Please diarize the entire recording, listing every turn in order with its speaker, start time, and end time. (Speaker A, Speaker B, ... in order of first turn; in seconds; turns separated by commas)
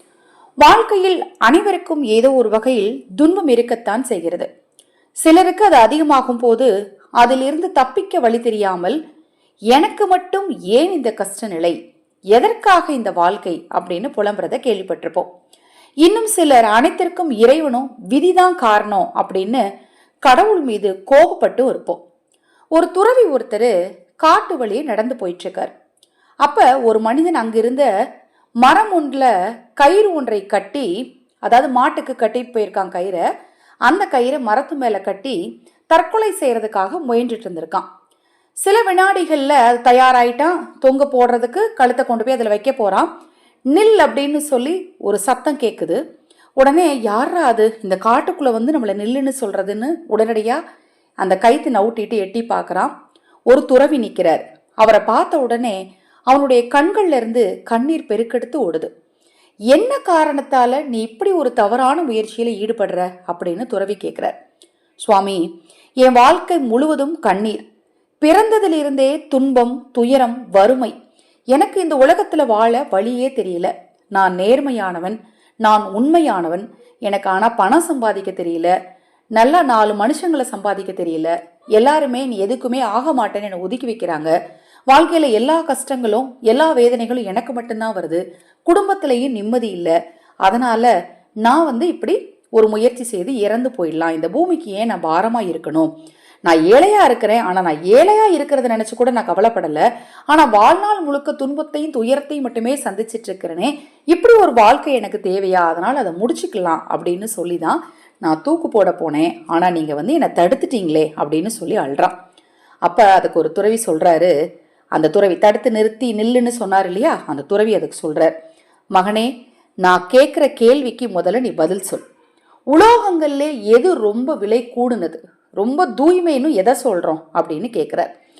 Speaker A: 0.6-4.5, Speaker A: 5.2-6.7, Speaker A: 7.2-9.0, Speaker A: 9.7-11.8, Speaker A: 12.3-15.3, Speaker A: 16.0-19.6, Speaker A: 20.2-22.0, Speaker A: 22.7-25.7, Speaker A: 26.4-27.9, Speaker A: 28.6-30.9, Speaker A: 31.4-33.2, Speaker A: 33.9-35.4, Speaker A: 35.9-37.9, Speaker A: 38.6-43.1, Speaker A: 43.7-46.0, Speaker A: 46.6-50.6, Speaker A: 51.2-52.9, Speaker A: 53.5-58.9, Speaker A: 59.7-64.3, Speaker A: 65.0-65.4, Speaker A: 66.0-67.6, Speaker A: 68.2-70.9, Speaker A: 71.5-78.7, Speaker A: 79.3-84.3, Speaker A: 84.9-90.9, Speaker A: 91.4-95.9, Speaker A: 96.5-112.1, Speaker A: 112.8-114.3, Speaker A: 115.0-118.3, Speaker A: 118.9-119.3, Speaker A: 119.8-122.0, Speaker A: 122.7-128.1